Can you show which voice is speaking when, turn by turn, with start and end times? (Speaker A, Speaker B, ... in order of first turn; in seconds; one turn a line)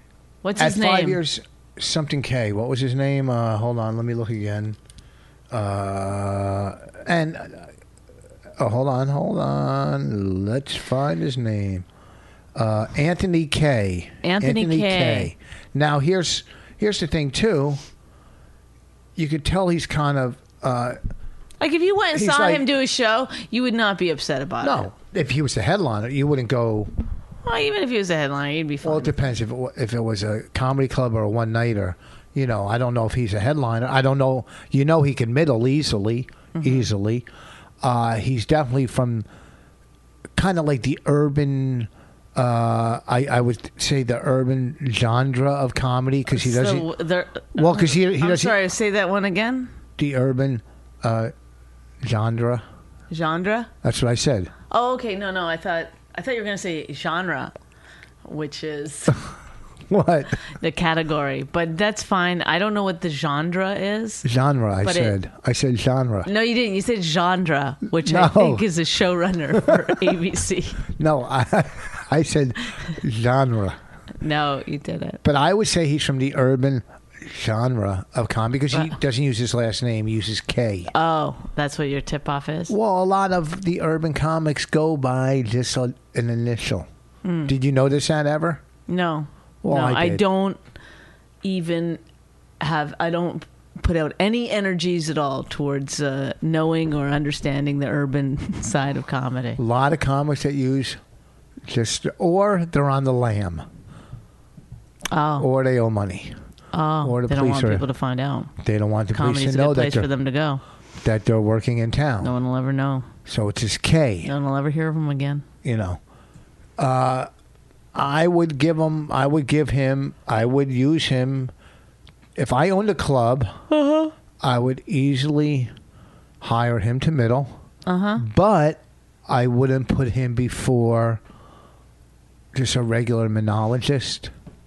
Speaker A: 0.4-1.2
Speaker B: 0.6-4.8
Speaker B: 5.5-7.7
Speaker B: 8.6-11.9
Speaker B: 12.6-17.8
Speaker A: 14.2-15.3
Speaker B: 19.2-21.0
Speaker A: 21.6-24.9
Speaker B: 22.1-22.7
Speaker B: 24.6-26.9
Speaker A: 27.4-29.2
Speaker B: 28.8-37.3
Speaker A: 36.5-36.9
Speaker B: 37.8-39.3
Speaker B: 40.4-46.9
Speaker A: 46.3-49.7
Speaker B: 47.5-48.6
Speaker B: 50.0-51.3
Speaker B: 52.0-52.6
Speaker A: 53.1-53.7
Speaker B: 53.8-54.5
Speaker A: 54.7-57.5
Speaker A: 58.2-59.2
Speaker B: 59.9-60.4
Speaker A: 60.5-64.2
Speaker B: 64.2-66.3
Speaker A: 64.8-65.2
Speaker A: 66.2-70.8
Speaker B: 68.0-68.7
Speaker B: 69.6-70.0
Speaker B: 70.9-73.8
Speaker A: 74.2-75.2
Speaker B: 75.2-80.9
Speaker A: 80.9-82.7
Speaker B: 82.7-86.9
Speaker A: 87.2-87.5
Speaker B: 87.5-88.6
Speaker A: 88.9-90.6
Speaker B: 89.6-90.2
Speaker A: 91.4-92.0
Speaker A: 92.6-99.6
Speaker B: 99.6-101.0
Speaker B: 101.7-103.7
Speaker A: 105.1-105.5
Speaker B: 105.4-106.4
Speaker A: 106.7-108.5
Speaker B: 107.0-107.9
Speaker B: 108.6-110.1
Speaker A: 109.1-110.6
Speaker B: 111.0-112.3
Speaker A: 112.2-113.1
Speaker B: 113.3-114.3
Speaker A: 114.2-115.5
Speaker B: 115.6-116.0
Speaker B: 116.8-117.3
Speaker B: 117.9-121.5
Speaker B: 122.4-123.6
Speaker A: 123.7-124.1
Speaker B: 124.4-125.7
Speaker B: 126.4-127.6
Speaker A: 127.9-128.2
Speaker B: 128.2-131.2
Speaker B: 132.5-134.3